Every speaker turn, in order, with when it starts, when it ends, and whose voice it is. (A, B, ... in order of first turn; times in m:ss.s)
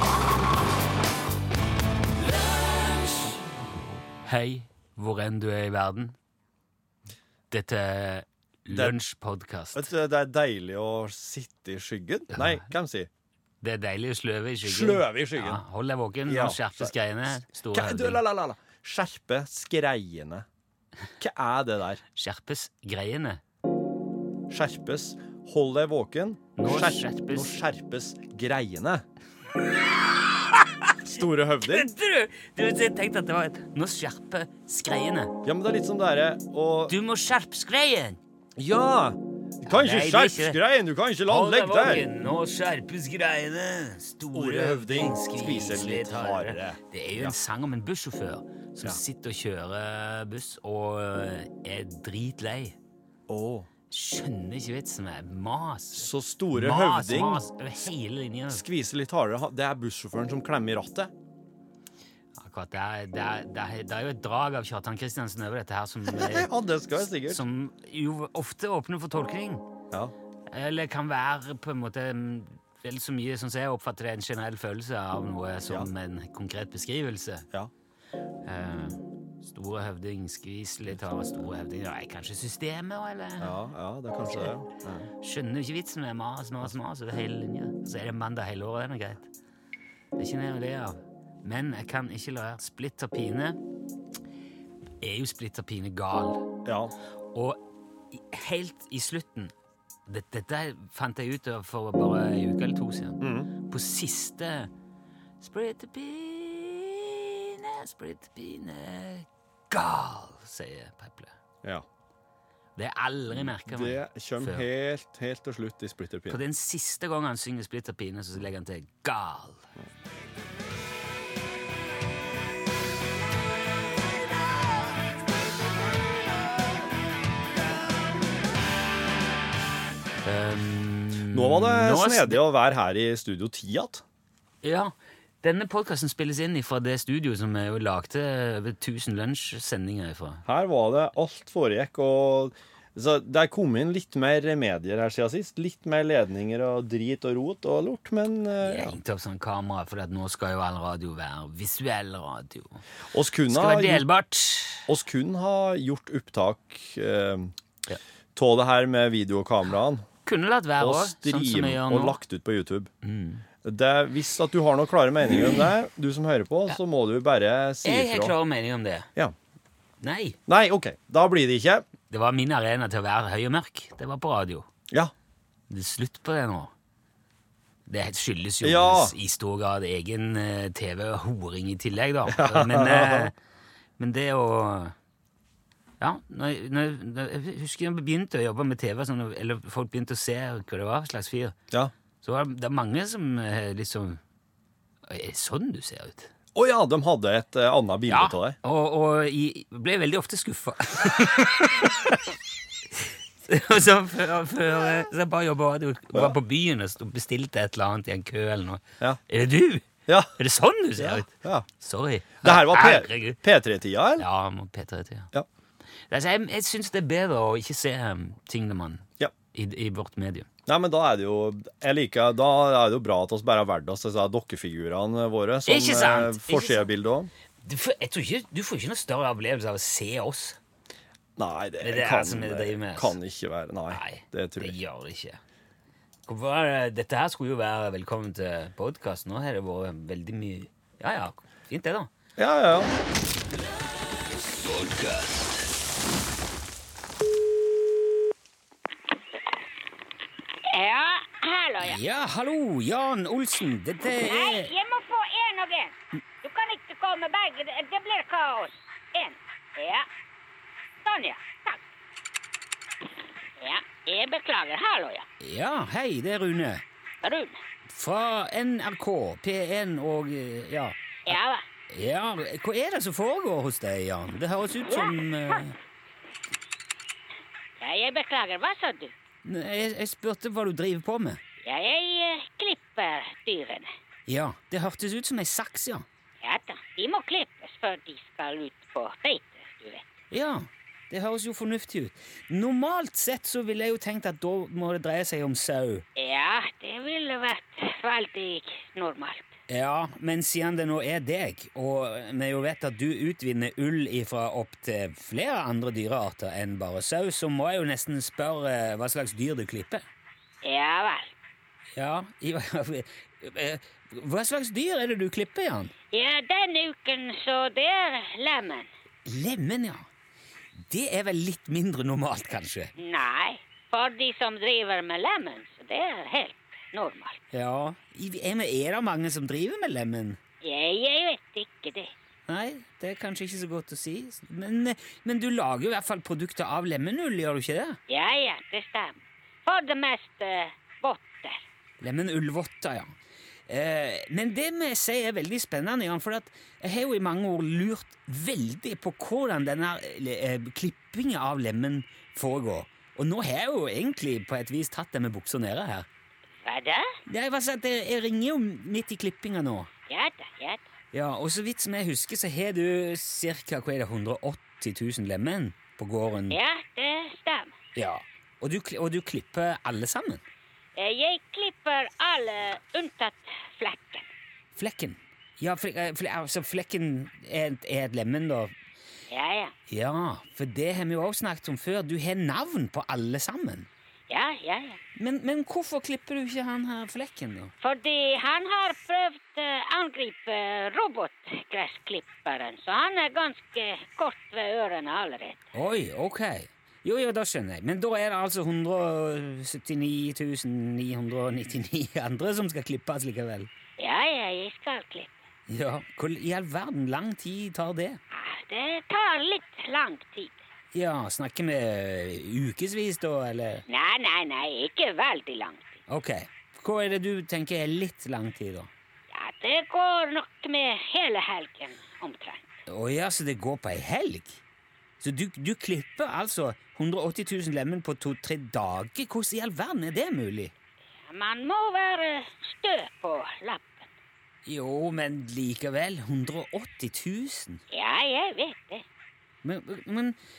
0:04.2-0:06.2 A
0:07.5-0:09.9 A
0:08.7-0:09.0 B
0:09.8-0:13.1 B
0:12.3-0:12.7 A
0:13.6-0:18.2 A
0:14.6-0:15.6 B
0:16.3-0:16.9 B
0:17.7-0:20.4 B
0:21.2-0:22.0 B
0:22.2-0:23.4 A
0:24.5-0:29.0 B
0:26.6-0:27.6 A
0:30.8-0:35.4 A
0:31.1-0:31.9 B
0:35.4-0:36.9 B
0:36.9-0:38.2 A
0:38.6-0:42.1 B
0:39.7-0:40.6 A
0:41.3-0:52.8 A
0:44.3-0:47.4 B
0:53.3-0:53.7 B
0:53.9-0:58.6 A
0:55.9-0:57.5 B
0:58.5-1:01.1 B
1:02.4-1:06.5 A
1:06.1-1:07.4 B
1:07.1-1:09.7 A
1:10.5-1:17.5 A
1:18.4-1:23.6 A
1:23.4-1:25.1 B
1:24.2-1:24.5 A
1:25.1-1:29.3 A
1:30.2-1:33.6 A
1:35.0-1:36.5 A
1:36.6-1:36.9 B
1:37.3-1:39.5 A
1:40.1-1:44.7 A
1:43.2-1:43.5 B
1:45.4-1:51.3 A
1:52.8-1:54.7 A
1:53.3-1:56.4 B
1:56.3-1:59.7 A
2:10.2-2:12.4 A
2:11.3-2:14.0 B
2:14.6-2:20.4 A
2:20.4-2:29.0 B
2:28.6-2:32.8 A
2:33.1-2:34.1 B
2:33.5-2:34.9 A
2:34.9-2:37.5 B
2:38.4-2:40.1 B
2:40.3-2:42.2 A
2:40.8-2:42.9 B
2:43.0-2:43.4 A
2:43.6-2:48.4 B
2:47.8-2:49.1 A
2:50.0-2:50.4 A
2:50.5-2:51.9 B
2:52.1-2:54.7 A
2:55.7-2:56.7 A
2:57.9-3:03.4 A
2:58.6-2:59.2 B
3:02.3-3:03.3 B
3:04.0-3:05.0 A
3:06.0-3:11.6 A
3:12.2-3:14.2 A
3:15.1-3:16.3 A
3:16.5-3:18.6 B
3:18.1-3:22.2 A
3:22.9-3:33.4 A
3:30.1-3:30.3 B
3:31.0-3:31.7 B
3:32.4-3:34.3 B
3:34.2-3:35.3 A
3:36.1-3:40.5 A
3:40.7-3:47.3 B
3:45.7-3:46.9 A
3:47.6-3:50.6 A
3:51.4-3:54.8 B
3:51.8-3:53.2 A
3:53.9-3:55.4 A
3:56.3-4:02.1 A
4:02.4-4:02.9 B
4:10.7-4:12.0 C
4:11.8-4:14.7 A
4:14.2-4:20.1 C
4:21.0-4:21.8 C
4:23.6-4:25.3 C
4:25.4-4:26.8 A
4:27.2-4:27.6 C
4:27.9-4:31.0 A
4:31.3-4:31.6 C
4:31.9-4:35.8 A
4:34.9-4:35.2 C
4:37.8-4:39.1 C
4:39.4-4:41.4 A
4:41.6-4:43.9 C
4:44.3-4:46.1 A
4:46.4-4:50.0 C
4:50.3-4:56.0 A
4:56.2-4:59.5 C
4:59.7-5:10.0 A
5:10.6-5:11.3 C
5:12.0-5:15.9 A
5:16.1-5:18.9 C
5:19.2-5:20.1 A
5:20.8-5:22.9 A
5:23.0-5:27.4 C
5:27.5-5:30.4 A
5:30.6-5:32.1 C
5:32.5-5:38.0 A
5:38.1-5:41.6 C
5:42.0-5:43.1 A
5:43.7-5:56.1 A
5:56.6-5:57.2 C
5:57.3-5:59.9 A
6:00.1-6:00.8 C
6:01.1-6:06.6 A
6:06.5-6:07.8 C
6:08.0-6:10.4 A
6:11.0-6:14.3 C
6:14.8-6:18.7 A
6:19.3-6:19.7 C
6:19.9-6:23.9 A
6:24.3-6:25.0 C
6:25.2-6:27.7 A
6:27.8-6:35.7 C
6:35.7-6:43.7 A
6:44.0-6:45.4 C
6:45.7-6:48.2 A
6:48.3-6:50.6 C
6:50.9-6:53.8 A
6:53.9-6:56.0 C
6:56.1-6:58.9 A
6:59.3-7:02.7 C
7:02.9-7:04.6 A
7:05.2-7:10.7 A
7:11.2-7:14.1 C
7:14.7-7:17.8 A
7:17.9-7:19.0 C
7:19.6-7:20.4 A